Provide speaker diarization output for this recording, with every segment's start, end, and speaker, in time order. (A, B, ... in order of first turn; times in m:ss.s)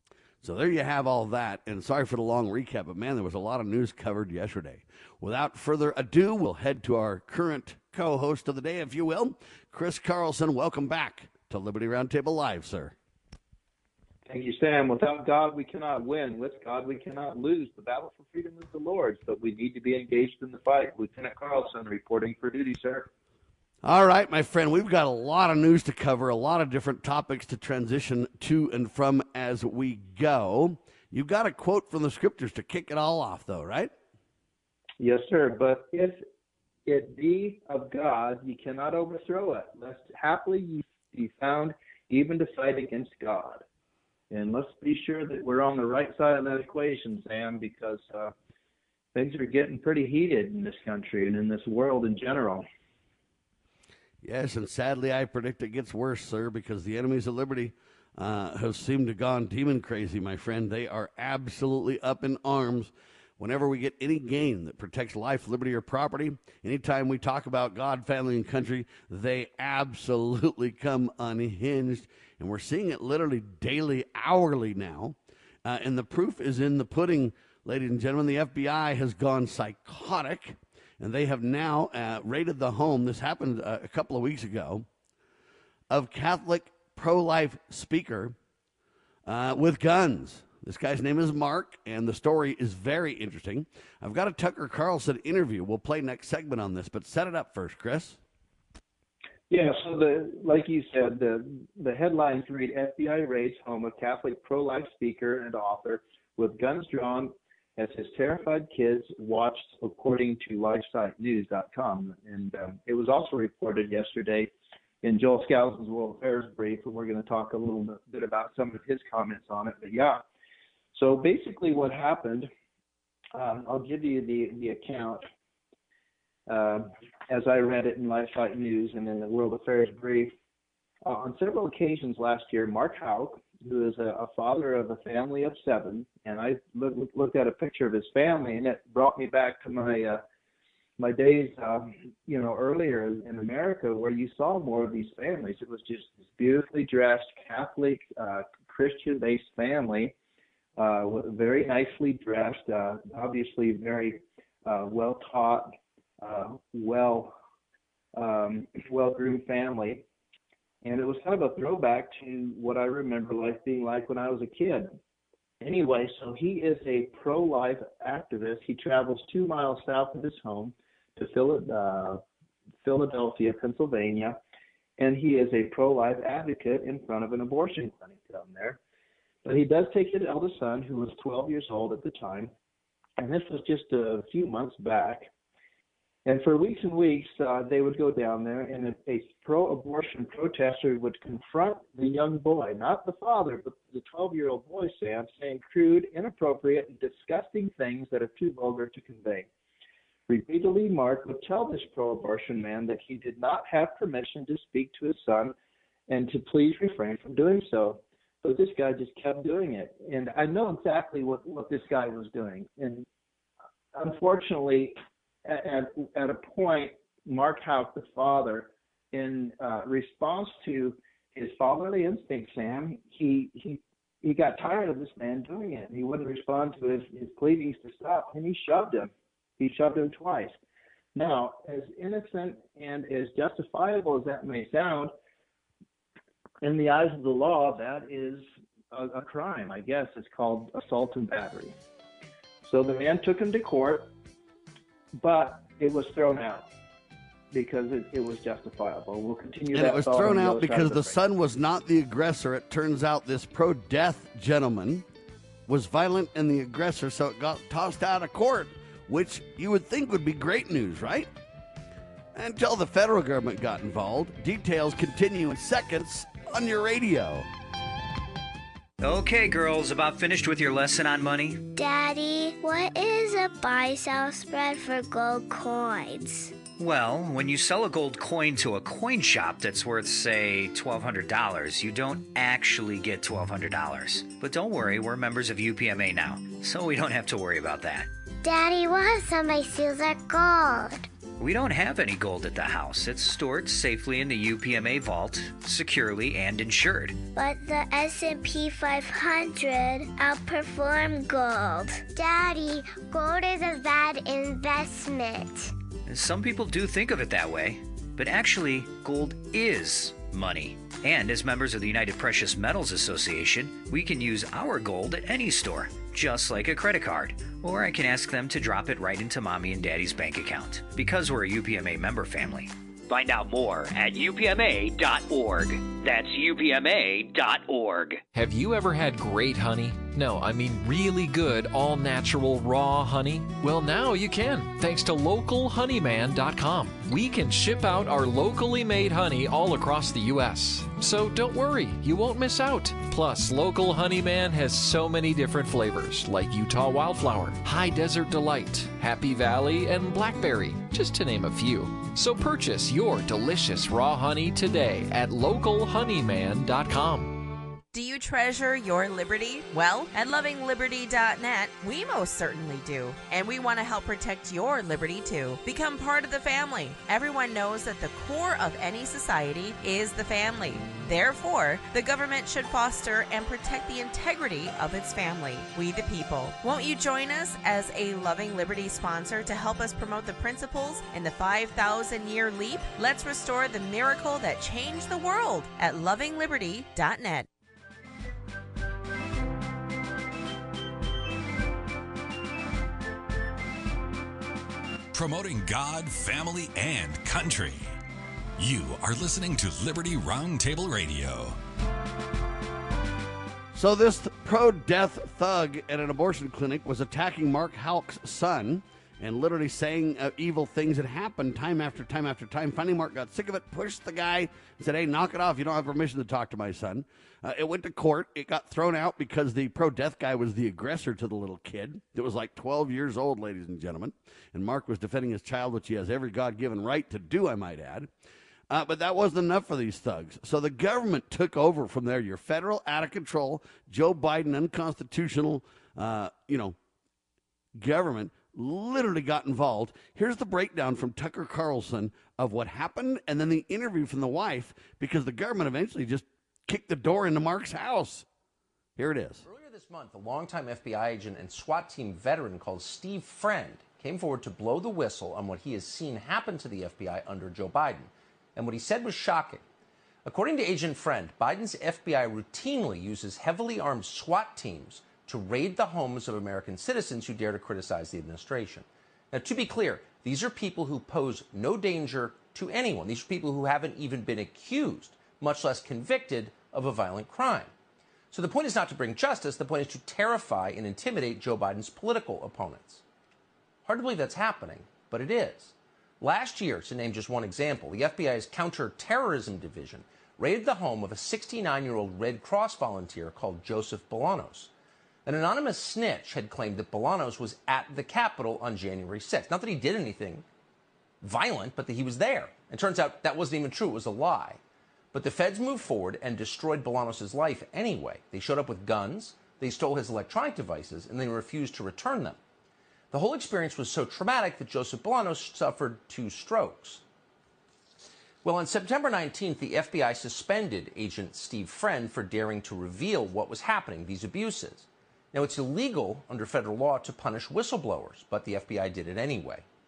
0:00.4-0:12.9 A
0:14.3-0:23.1 B
0:23.8-0:33.9 A
0:35.0-0:36.2 B
0:36.9-0:43.6 B
0:44.3-0:48.3 B
0:49.1-0:52.6 B
0:54.2-1:24.9 A
1:25.9-1:28.4 A
1:29.3-1:38.2 A
1:39.5-1:54.5 B
1:55.0-2:00.2 B
2:00.9-2:02.5 B
2:03.3-2:05.3 B
2:06.5-2:10.3 B
2:11.0-2:20.2 B
2:21.0-2:30.2 B
2:30.8-2:37.4 B
2:38.1-2:40.0 B
2:40.8-2:45.0 B
2:45.6-2:52.2 B
2:52.8-2:54.4 B
2:55.0-2:58.8 B
2:59.4-3:02.5 B
3:03.2-3:05.3 B
3:06.2-3:19.5 B
3:20.3-3:25.5 B
3:26.1-3:33.1 B
3:34.0-3:34.9 B
3:35.4-3:50.6 B
3:51.2-3:55.1 B
3:56.6-4:01.8 B
4:02.7-4:04.1 B
4:05.2-4:06.7 B
4:07.5-4:11.2 B
4:09.7-4:15.0 A
4:15.7-4:21.3 A
4:22.3-4:27.5 A
4:29.0-4:31.7 C
4:31.8-4:36.7 D
4:36.7-4:48.1 C
4:48.4-4:51.1 D
4:51.4-4:57.2 C
4:57.4-5:05.7 D
5:06.1-5:28.2 C
5:28.3-5:57.5 E
5:57.9-6:27.5 F
6:35.1-6:37.9 G
6:38.6-6:41.6 G
6:43.7-7:08.1 A
7:08.7-7:16.8 A
7:17.8-7:28.3 A
7:29.0-7:29.4 A
7:29.4-7:39.6 H
7:40.2-7:57.7 H
7:58.3-8:03.0 H
8:03.8-8:14.7 H
8:15.2-8:20.5 H
8:21.2-8:24.6 H
8:25.1-8:32.4 H
8:33.1-8:37.0 H
8:38.4-8:49.6 H